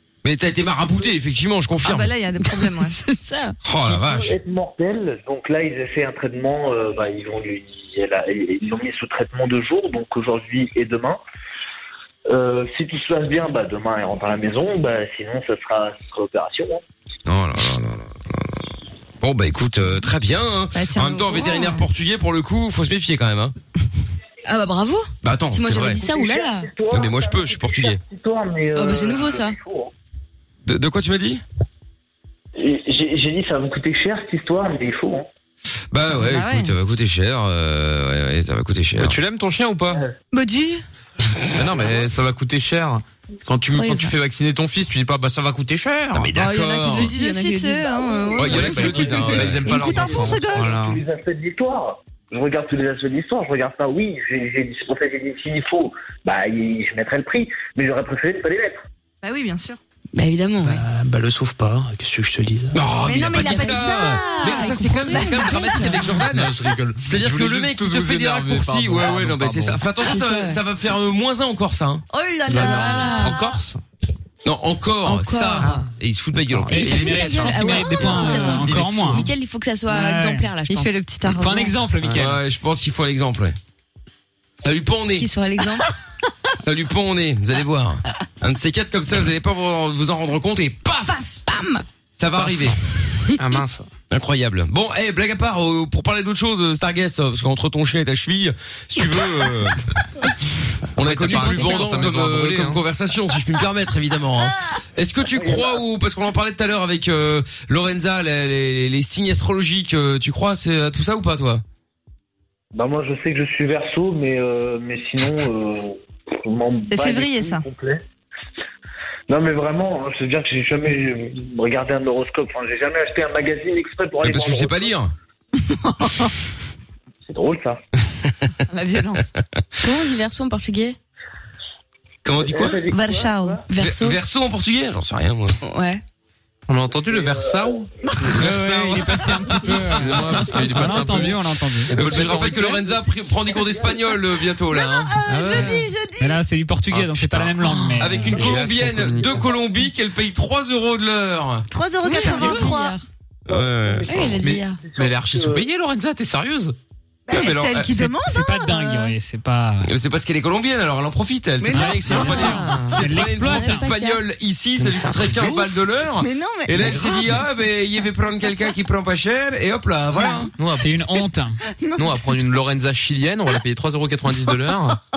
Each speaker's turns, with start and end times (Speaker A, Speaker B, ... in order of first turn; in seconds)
Speaker A: 0.2-2.1, 3.6-4.4, 17.2-18.6, 19.2-23.5, 25.2-26.0, 26.9-28.0, 30.6-31.4, 35.9-39.2, 46.1-47.1, 48.3-49.8, 62.7-72.0, 74.4-79.2, 82.1-83.6, 84.6-85.3, 86.6-91.2, 92.2-92.8, 94.1-99.8, 101.0-111.6, 124.2-125.1, 132.2-132.8, 133.8-135.6, 138.3-141.2, 141.9-145.2, 147.1-151.7, 153.4-154.4, 157.3-158.1, 159.8-170.5
Speaker B: 1.8-3.0, 20.7-21.8, 36.1-36.7, 40.3-40.8, 46.4-50.8, 59.2-59.8, 63.0-66.0, 72.1-73.6, 80.7-81.8, 116.9-117.6, 125.7-126.3, 128.7-129.2, 132.9-133.6, 144.7-146.4, 151.7-153.0, 157.3-159.1, 161.6-162.8, 165.3-167.4, 170.2-170.5, 171.7-172.3
Speaker C: 2.4-3.5, 24.4-26.7, 28.7-29.6, 43.7-44.1, 46.9-48.2, 60.1-60.8, 63.5-65.8, 70.0-70.6, 72.6-73.4, 75.0-75.8, 76.7-81.0, 85.2-85.9, 91.5-91.8, 101.3-102.0, 129.8-131.0, 133.7-134.2, 135.6-136.0, 152.0-153.0, 154.1-154.8, 163.3-164.2
Speaker D: 3.9-11.2, 12.3-16.8, 25.8-29.9, 32.5-35.3, 48.3-58.8, 105.4-105.8, 112.7-118.0, 119.3-125.0, 127.2-127.8, 132.4-133.6, 137.1-138.3, 142.0-142.9, 143.5-144.0, 153.5-155.7
Speaker E: 39.0-40.1, 41.5-46.3, 48.4-51.0, 60.6-62.8, 65.8-69.8, 72.5-73.8, 75.6-75.9, 76.5-77.1, 82.0-82.3, 93.4-93.9, 101.0-102.8, 136.7-137.9, 139.7-142.8, 147.1-147.4, 148.2-149.4, 154.4-156.8, 162.2-163.0, 164.8-165.4, 166.8-167.3, 170.6-170.9, 172.0-175.0
Speaker F: 76.7-79.3, 79.9-80.5, 81.3-82.4, 138.3-142.0, 145.3-148.5, 158.2-159.9, 161.7-163.9, 170.8-171.6